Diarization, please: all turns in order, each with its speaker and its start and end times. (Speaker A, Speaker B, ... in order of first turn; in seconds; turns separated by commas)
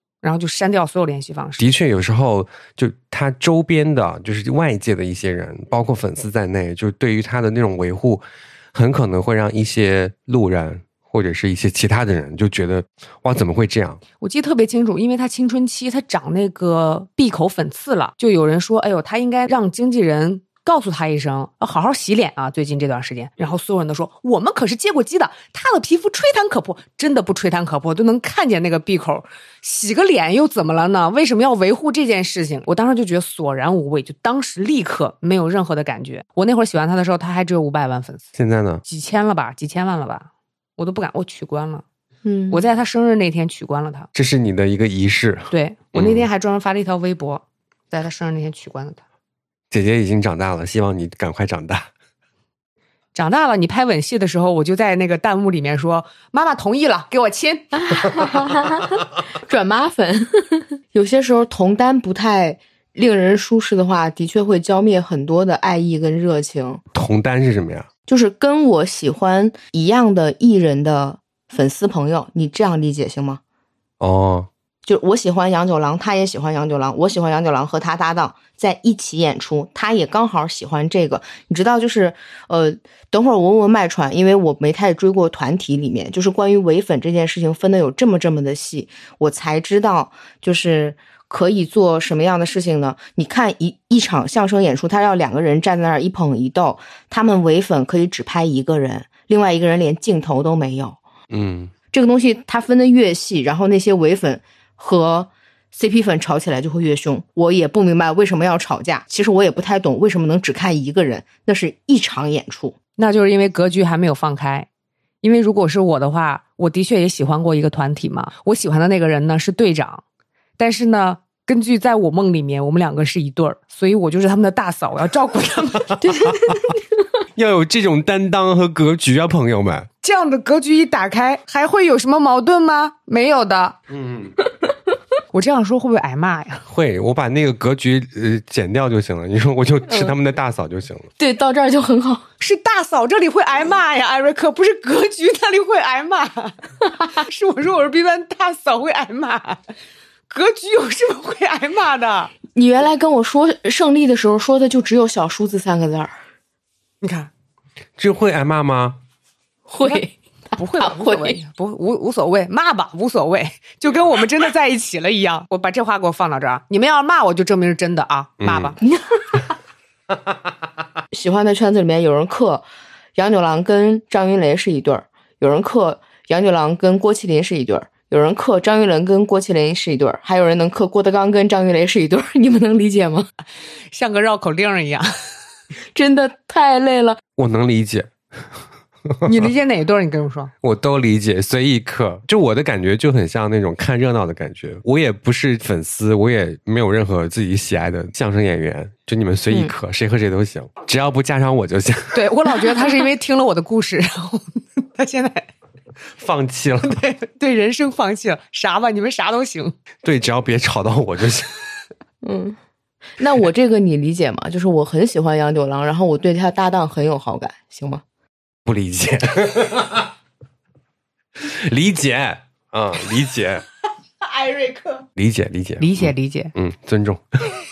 Speaker A: 0.2-1.6, Speaker B: 1.6-14.0, Speaker A: 14.2-38.3, Speaker B: 38.4-38.8, Speaker A: 38.9-41.8, Speaker C: 42.2-42.6, Speaker A: 42.5-44.1, Speaker B: 44.1-46.3, Speaker A: 45.5-49.0, Speaker B: 49.7-51.9, Speaker A: 53.1-57.8, Speaker C: 57.8-66.8, Speaker B: 66.9-67.9, Speaker C: 68.1-73.4, Speaker B: 74.0-74.5, Speaker C: 74.8-101.0, Speaker B: 101.3-101.7, Speaker C: 101.9-112.8, Speaker A: 113.0-114.7, Speaker A: 115.2-120.0, Speaker A: 120.6-126.0, Speaker C: 126.0-126.8, Speaker B: 127.4-129.9, Speaker A: 130.0-133.8, Speaker B: 133.9-134.3, Speaker A: 135.3-136.6, Speaker B: 136.7-141.1, Speaker C: 139.9-140.1, Speaker C: 141.2-142.3, Speaker A: 142.4-146.6, Speaker A: 147.1-149.6, Speaker A: 150.3-152.3, Speaker C: 152.5-156.1, Speaker A: 157.0-157.3, Speaker B: 158.0-159.0, Speaker C: 159.7-160.2, Speaker A: 160.6-168.8, Speaker C: 160.8-161.4, Speaker B: 168.4-168.7, Speaker C: 168.8-169.4, Speaker C: 171.1-183.3, Speaker A: 183.9-185.1, Speaker C: 185.9-187.2, Speaker B: 187.4-188.1, Speaker A: 189.3-190.5, Speaker B: 190.6-202.2, Speaker A: 202.1-205.5, Speaker B: 206.2-207.0, Speaker A: 206.8-209.7, Speaker B: 210.0-211.5, Speaker C: 212.2-212.6, Speaker C: 213.2-218.0, Speaker B: 218.7-220.1, Speaker B: 221.4-223.6, Speaker B: 225.2-227.2, Speaker A: 225.8-226.5